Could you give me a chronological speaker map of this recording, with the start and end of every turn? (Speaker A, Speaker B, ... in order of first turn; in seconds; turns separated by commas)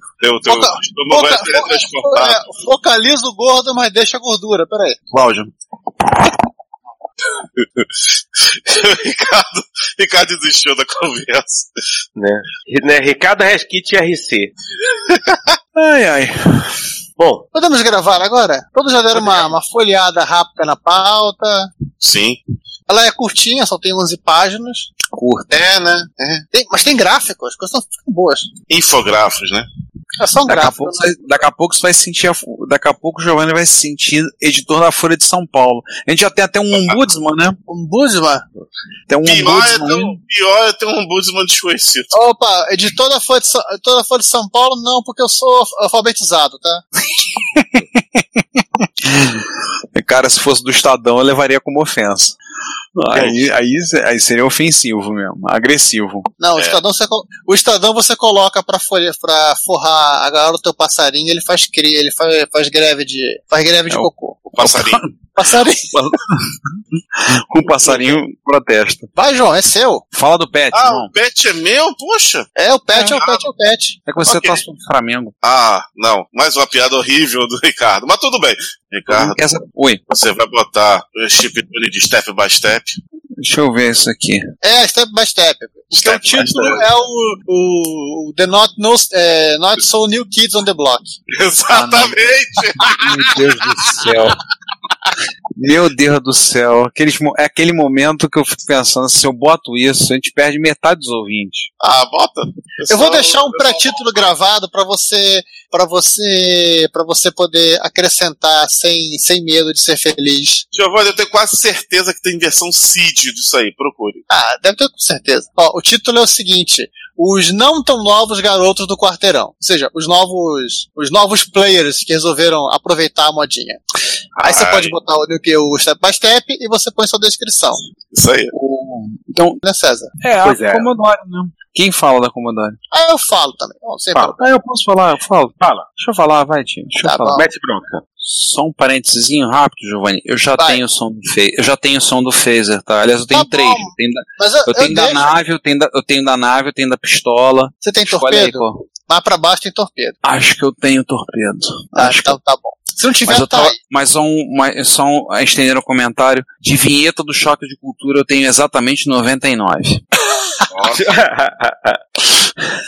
Speaker A: 0.2-2.4, Speaker B: 0.5-5.0, Speaker C: 5.1-5.5, Speaker A: 7.6-7.9, Speaker A: 8.5-11.7, Speaker D: 12.2-14.5, Speaker A: 15.1-15.5, Speaker C: 15.8-16.8, Speaker D: 17.2-17.5, Speaker B: 17.5-21.7, Speaker A: 22.0-22.4, Speaker B: 22.9-24.9, Speaker C: 25.1-25.5, Speaker A: 25.5-26.4, Speaker B: 26.5-28.5, Speaker A: 28.7-29.7, Speaker B: 30.2-31.1, Speaker C: 30.5-37.6, Speaker B: 37.7-38.4, Speaker C: 39.1-40.2, Speaker A: 39.2-42.1, Speaker B: 42.1-46.8, Speaker C: 47.4-52.4, Speaker C: 53.0-56.3, Speaker D: 53.1-53.4, Speaker B: 56.4-64.5, Speaker C: 63.9-65.1, Speaker A: 64.5-65.0, Speaker B: 65.4-65.9, Speaker C: 65.9-69.1, Speaker B: 69.2-70.0, Speaker C: 70.1-71.1, Speaker A: 70.7-72.5, Speaker B: 72.6-74.0, Speaker A: 73.0-73.4, Speaker C: 74.1-75.3, Speaker A: 74.3-74.6, Speaker A: 75.4-79.4, Speaker C: 79.1-80.0, Speaker A: 80.1-83.0, Speaker C: 83.4-84.5, Speaker B: 84.6-91.2, Speaker C: 86.0-86.8, Speaker A: 91.3-93.4, Speaker C: 91.7-92.2, Speaker C: 92.9-94.4, Speaker C: 95.5-101.7, Speaker A: 101.8-104.0, Speaker B: 102.9-110.6, Speaker A: 110.7-114.2, Speaker B: 114.3-123.8, Speaker A: 124.4-124.9, Speaker B: 124.4-127.8, Speaker A: 128.1-128.5, Speaker C: 128.5-129.6, Speaker B: 129.6-130.1, Speaker C: 130.2-132.8, Speaker D: 130.4-130.9, Speaker B: 132.9-134.4, Speaker C: 134.4-137.4, Speaker D: 135.6-135.9, Speaker B: 137.0-137.4, Speaker D: 137.3-138.0, Speaker C: 138.2-148.8, Speaker B: 143.3-145.2, Speaker B: 147.8-150.2, Speaker C: 150.2-152.4, Speaker B: 151.9-153.8, Speaker C: 153.2-160.0, Speaker A: 160.7-161.1, Speaker D: 160.9-162.0